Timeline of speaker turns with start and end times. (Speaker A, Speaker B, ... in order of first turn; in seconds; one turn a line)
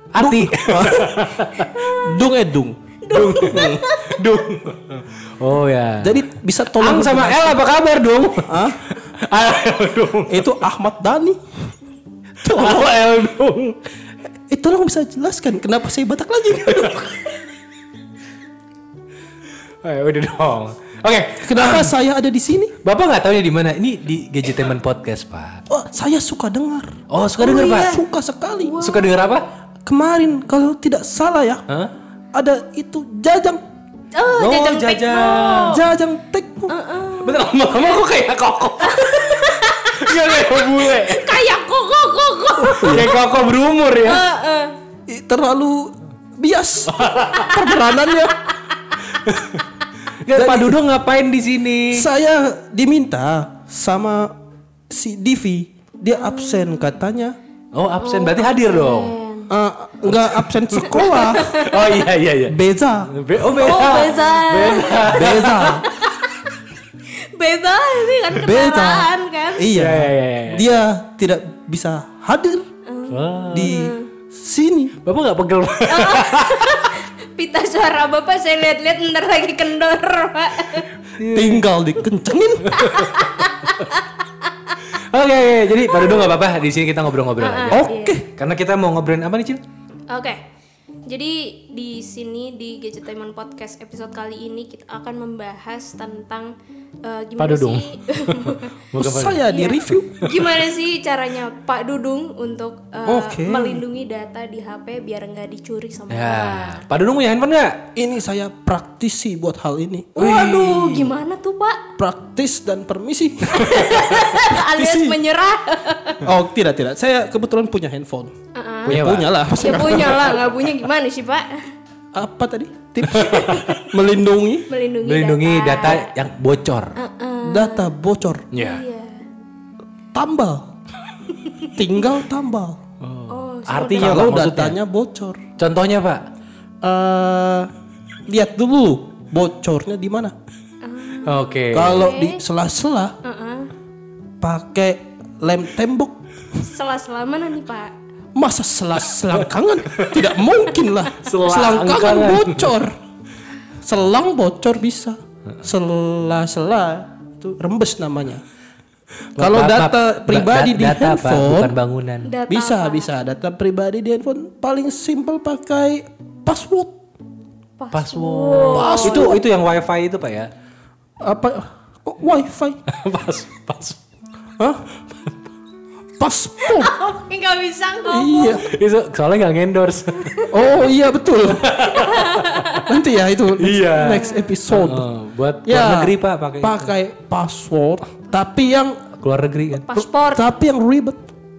Speaker A: 0.1-1.7
Speaker B: 0.2-3.8
Speaker C: 1.7-2.2
Speaker C: 3.0-4.2
Speaker A: 3.1-10.4
Speaker B: 6.0-7.6
Speaker B: 8.4-8.9
Speaker B: 10.3-11.4
Speaker A: 12.4-13.8
Speaker B: 12.4-12.9
Speaker B: 14.5-17.2
Speaker A: 19.8-21.9
Speaker B: 21.4-22.7
Speaker A: 22.8-25.6
Speaker B: 25.7-28.8
Speaker A: 27.1-28.0
Speaker C: 27.4-28.0
Speaker C: 28.6-29.1
Speaker A: 28.8-29.5
Speaker B: 29.8-31.6
Speaker B: 32.3-33.6
Speaker C: 34.1-35.8
Speaker A: 34.3-35.8
Speaker B: 35.7-36.7
Speaker C: 36.7-37.8
Speaker A: 37.2-41.3
Speaker C: 38.8-43.2
Speaker B: 42.6-43.1
Speaker A: 42.7-44.2
Speaker C: 44.0-44.7
Speaker B: 45.1-48.4
Speaker A: 46.9-47.6
Speaker A: 49.1-49.6
Speaker A: 50.2-52.1
Speaker B: 50.3-50.8
Speaker B: 51.9-54.4
Speaker B: 54.9-57.4
Speaker C: 56.1-56.8
Speaker A: 57.7-59.1
Speaker C: 58.0-59.5
Speaker B: 59.5-61.7
Speaker A: 60.0-65.9
Speaker C: 60.8-61.9
Speaker B: 62.5-63.1
Speaker C: 63.4-66.5
Speaker B: 63.7-64.0
Speaker B: 64.7-65.9
Speaker C: 67.0-69.7
Speaker B: 68.3-72.7
Speaker A: 69.7-70.8
Speaker C: 72.8-74.1
Speaker A: 73.1-73.8
Speaker B: 73.5-74.9
Speaker A: 75.0-77.0
Speaker C: 75.9-80.9
Speaker A: 81.2-81.7
Speaker B: 81.2-82.8
Speaker A: 82.7-83.2
Speaker C: 82.8-84.0
Speaker A: 84.9-89.6
Speaker C: 86.0-86.3
Speaker C: 87.4-88.2
Speaker B: 87.7-88.2
Speaker C: 90.1-90.4
Speaker C: 91.1-98.9
Speaker A: 97.4-100.5
Speaker B: 99.0-100.1
Speaker C: 99.5-106.8
Speaker B: 103.0-103.8
Speaker A: 106.1-107.9
Speaker B: 108.0-110.2
Speaker C: 110.2-111.8
Speaker A: 110.2-111.1
Speaker B: 112.0-115.2
Speaker C: 113.5-116.3
Speaker A: 113.6-114.2
Speaker B: 116.2-118.3
Speaker C: 118.5-119.0
Speaker B: 118.8-120.6
Speaker A: 118.9-119.9
Speaker C: 119.5-121.7
Speaker B: 122.1-124.7
Speaker A: 123.0-123.7
Speaker C: 123.2-123.9
Speaker C: 124.7-126.1
Speaker A: 125.0-127.0
Speaker C: 127.0-127.9
Speaker B: 127.4-128.5
Speaker A: 128.5-128.8
Speaker C: 128.6-129.2
Speaker B: 130.1-130.7
Speaker C: 131.4-131.7
Speaker B: 131.7-132.8
Speaker A: 133.0-134.8
Speaker C: 133.3-134.2
Speaker B: 133.9-135.4
Speaker A: 135.6-136.2
Speaker B: 136.8-137.7
Speaker B: 138.3-140.3
Speaker C: 140.8-142.4
Speaker A: 141.2-142.1
Speaker B: 141.7-143.2
Speaker C: 143.2-143.7
Speaker B: 144.4-146.2
Speaker C: 146.6-147.9
Speaker B: 148.3-152.9
Speaker A: 149.3-150.3
Speaker A: 151.1-152.8
Speaker B: 153.8-158.4
Speaker A: 159.3-162.3
Speaker B: 159.4-161.7
Speaker C: 162.2-163.1
Speaker B: 162.5-167.0
Speaker C: 167.8-169.4
Speaker A: 167.9-170.5
Speaker B: 168.7-169.4
Speaker B: 171.2-172.8
Speaker A: 172.9-174.0
Speaker B: 174.6-174.8
Speaker B: 176.2-176.9
Speaker C: 176.6-178.6
Speaker B: 178.1-178.7
Speaker A: 178.6-180.5
Speaker B: 180.5-181.9
Speaker A: 181.5-182.6
Speaker C: 181.9-183.0
Speaker B: 182.7-185.1
Speaker A: 183.6-186.9
Speaker C: 184.0-184.6
Speaker B: 185.6-189.0
Speaker A: 189.2-189.9
Speaker C: 189.8-190.4
Speaker B: 189.9-191.2